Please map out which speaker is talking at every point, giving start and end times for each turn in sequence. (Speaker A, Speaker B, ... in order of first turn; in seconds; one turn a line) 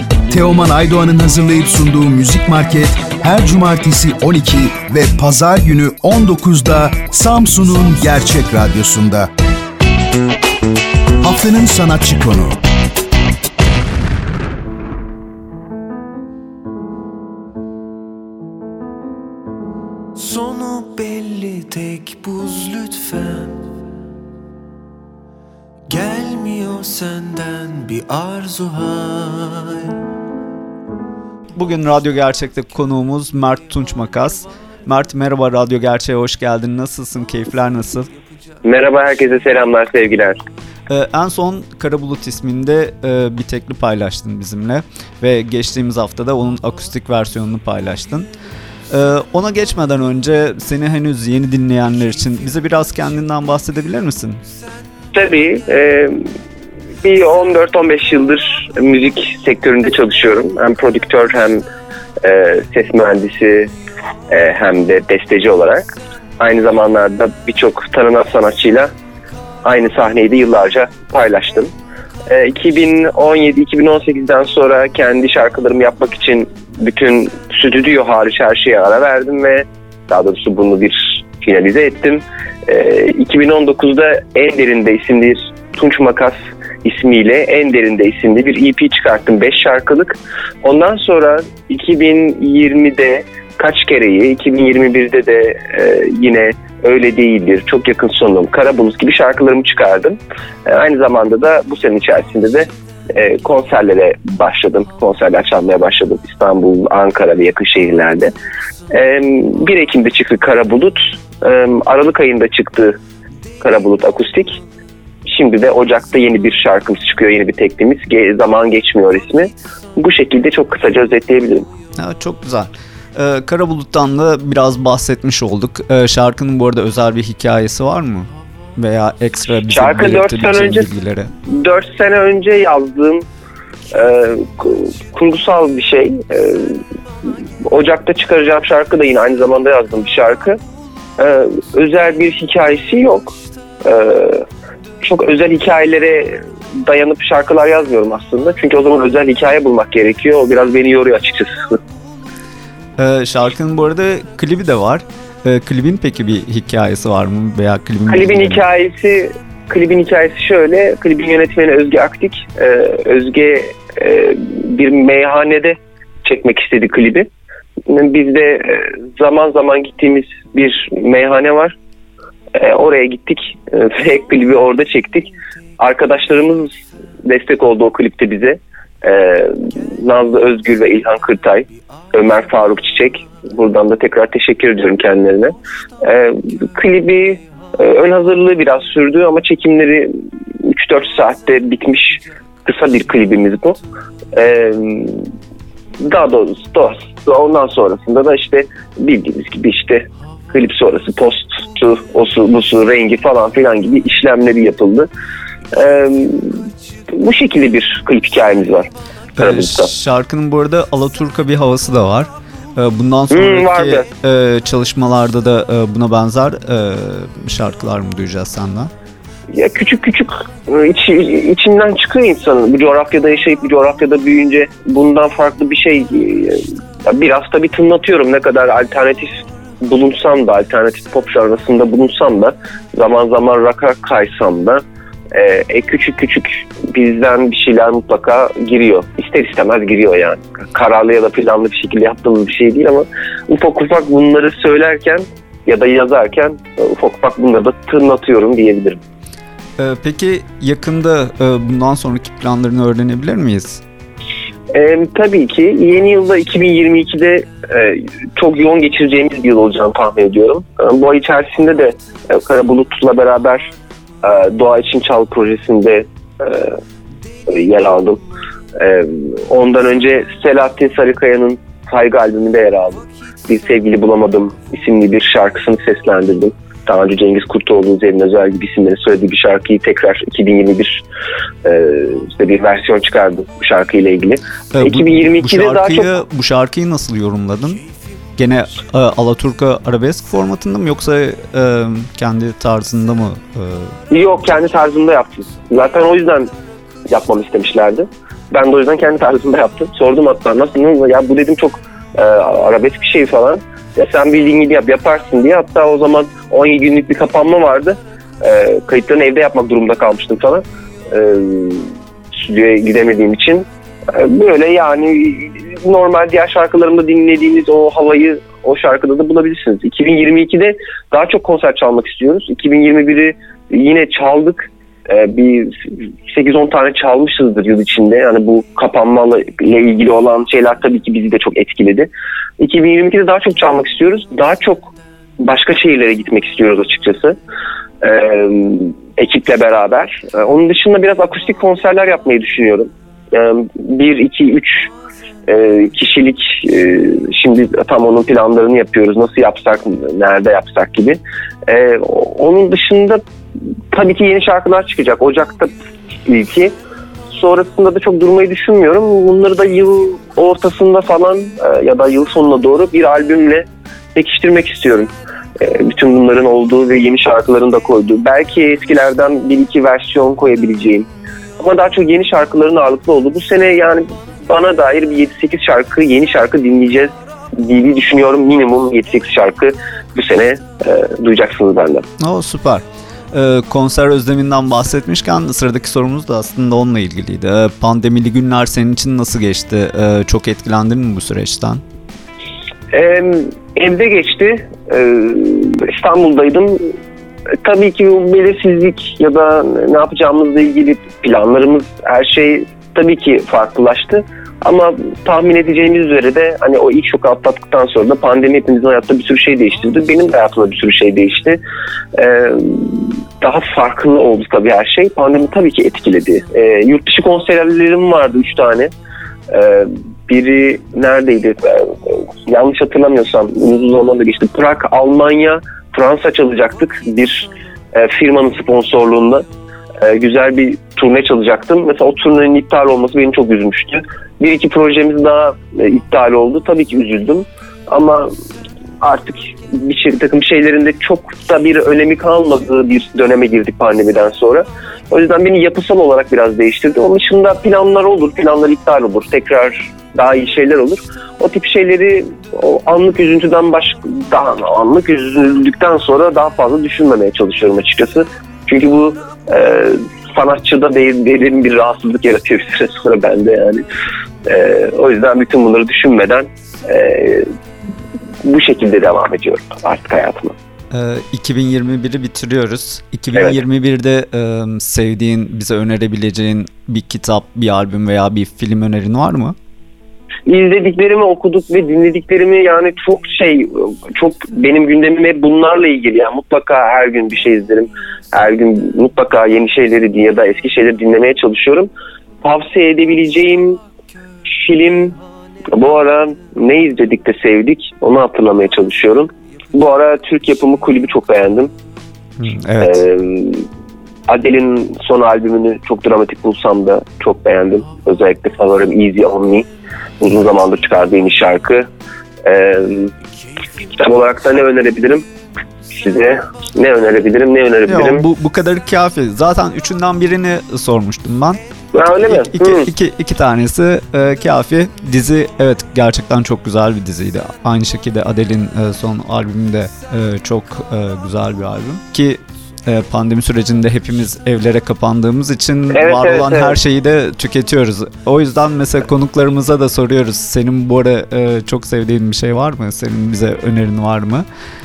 Speaker A: 0.3-9.3
Speaker A: 11.2-12.6
Speaker B: 20.1-23.6
Speaker B: 25.9-30.0
Speaker C: 31.5-38.1
Speaker D: 38.6-40.4
Speaker C: 40.9-48.3
Speaker C: 48.9-54.4
Speaker D: 55.1-56.2
Speaker D: 57.0-61.6
Speaker D: 62.2-63.7
Speaker D: 64.3-65.8
Speaker D: 66.4-68.9
Speaker D: 69.6-71.7
Speaker D: 72.3-108.3
Speaker D: 108.9-113.0
Speaker D: 113.6-114.6
Speaker D: 115.2-121.7
Speaker C: 122.0-131.3
Speaker D: 129.7-130.9
Speaker D: 131.5-133.2
Speaker D: 133.9-136.8
Speaker D: 137.6-140.6
Speaker D: 141.2-144.4
Speaker D: 145.0-151.8
Speaker C: 153.0-158.6
Speaker D: 158.1-167.3
Speaker D: 167.9-171.8
Speaker D: 172.5-176.7
Speaker D: 177.2-190.1
Speaker D: 190.6-193.8
Speaker D: 194.3-195.2
Speaker D: 196.0-205.1
Speaker D: 205.7-209.9
Speaker C: 209.4-218.9
Speaker D: 213.3-214.0
Speaker D: 219.5-249.0
Speaker C: 249.8-253.8
Speaker D: 254.7-266.7
Speaker D: 267.5-268.2
Speaker D: 268.8-281.0
Speaker D: 281.6-286.1
Speaker C: 284.7-287.8
Speaker C: 288.4-293.9
Speaker D: 294.1-296.5
Speaker D: 297.1-337.4
Speaker D: 338.0-344.9
Speaker D: 345.5-353.2
Speaker D: 353.9-355.7
Speaker D: 356.2-356.7
Speaker D: 357.3-382.1
Speaker C: 382.2-391.8
Speaker D: 392.9-396.8
Speaker D: 397.6-411.6
Speaker D: 412.1-418.9
Speaker D: 419.5-429.4
Speaker D: 430.0-438.3
Speaker D: 439.0-463.8
Speaker D: 464.4-467.5
Speaker D: 468.4-470.5
Speaker C: 470.9-479.6
Speaker D: 480.5-491.9
Speaker D: 492.4-493.8
Speaker D: 494.5-495.2
Speaker D: 495.7-501.7
Speaker C: 502.4-503.0
Speaker D: 502.8-503.6
Speaker D: 504.3-509.6
Speaker D: 510.2-511.9
Speaker D: 512.4-513.1
Speaker D: 513.9-515.2
Speaker D: 515.9-518.2
Speaker C: 517.9-521.6
Speaker D: 521.9-522.9
Speaker C: 522.3-544.5
Speaker D: 535.9-536.8